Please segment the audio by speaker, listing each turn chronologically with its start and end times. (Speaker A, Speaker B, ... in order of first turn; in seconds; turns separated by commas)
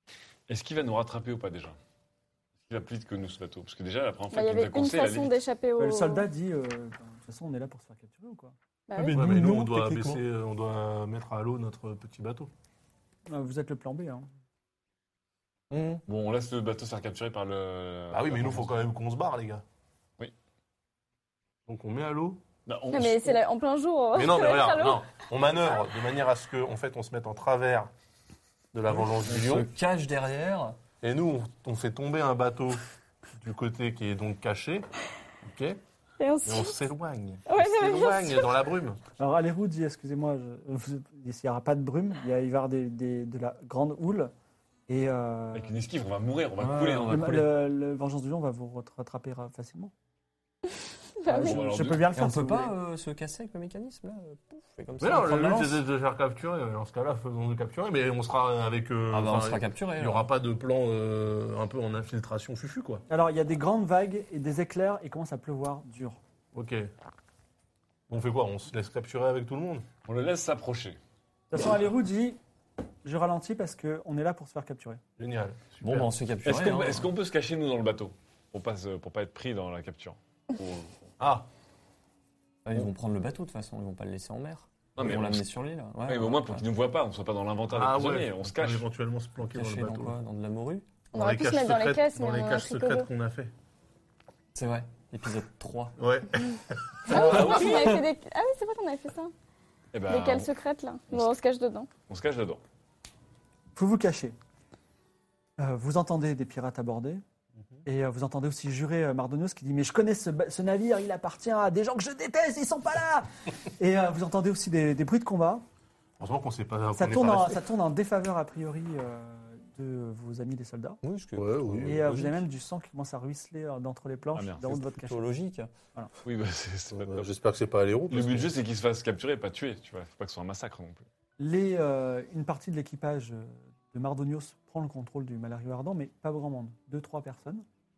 Speaker A: 0.5-1.8, Speaker A: 2.7-5.3, Speaker B: 4.3-6.3, Speaker C: 5.8-10.2, Speaker B: 8.9-9.2, Speaker D: 9.0-12.5, Speaker C: 13.3-14.3, Speaker E: 15.7-16.0, Speaker A: 16.1-18.7, Speaker D: 18.1-19.6, Speaker D: 21.7-22.4, Speaker A: 22.7-23.3, Speaker B: 22.9-25.1, Speaker D: 24.1-27.9, Speaker D: 28.7-29.7, Speaker E: 28.9-30.8, Speaker D: 31.0-32.8, Speaker D: 33.4-34.9, Speaker D: 35.4-35.8, Speaker B: 36.2-36.8, Speaker D: 36.5-39.0, Speaker B: 37.5-38.5, Speaker C: 39.2-44.3, Speaker C: 44.9-45.7, Speaker A: 45.5-47.3, Speaker E: 46.6-47.5, Speaker C: 47.1-49.9, Speaker B: 51.2-51.6, Speaker C: 51.3-52.7, Speaker A: 51.4-52.1, Speaker E: 52.1-55.8, Speaker D: 55.0-63.0, Speaker E: 59.1-60.3, Speaker C: 63.1-66.2, Speaker D: 66.5-66.9, Speaker D: 68.1-69.8, Speaker A: 70.1-71.0, Speaker C: 71.5-72.4, Speaker C: 73.0-75.0, Speaker D: 75.2-76.1, Speaker E: 75.8-77.1, Speaker A: 76.5-81.1, Speaker D: 81.2-81.5, Speaker E: 82.7-86.6, Speaker A: 85.0-85.4, Speaker A: 86.0-88.9, Speaker D: 87.7-90.2, Speaker E: 89.4-90.8, Speaker B: 91.1-93.1, Speaker D: 91.1-93.5, Speaker E: 94.5-96.0, Speaker D: 96.0-97.6, Speaker B: 97.1-99.3, Speaker E: 97.1-98.0, Speaker A: 97.1-98.0, Speaker A: 99.9-100.5, Speaker B: 100.1-101.9, Speaker A: 102.1-102.6, Speaker C: 103.8-104.4, Speaker C: 105.6-107.2, Speaker C: 107.8-115.6, Speaker D: 116.2-117.6, Speaker C: 117.0-121.0, Speaker E: 121.0-122.3, Speaker D: 121.4-122.4, Speaker C: 121.8-125.3, Speaker A: 124.3-124.8, Speaker E: 124.9-125.7, Speaker A: 126.2-127.2, Speaker D: 126.9-128.5, Speaker A: 128.1-131.1, Speaker C: 131.4-137.7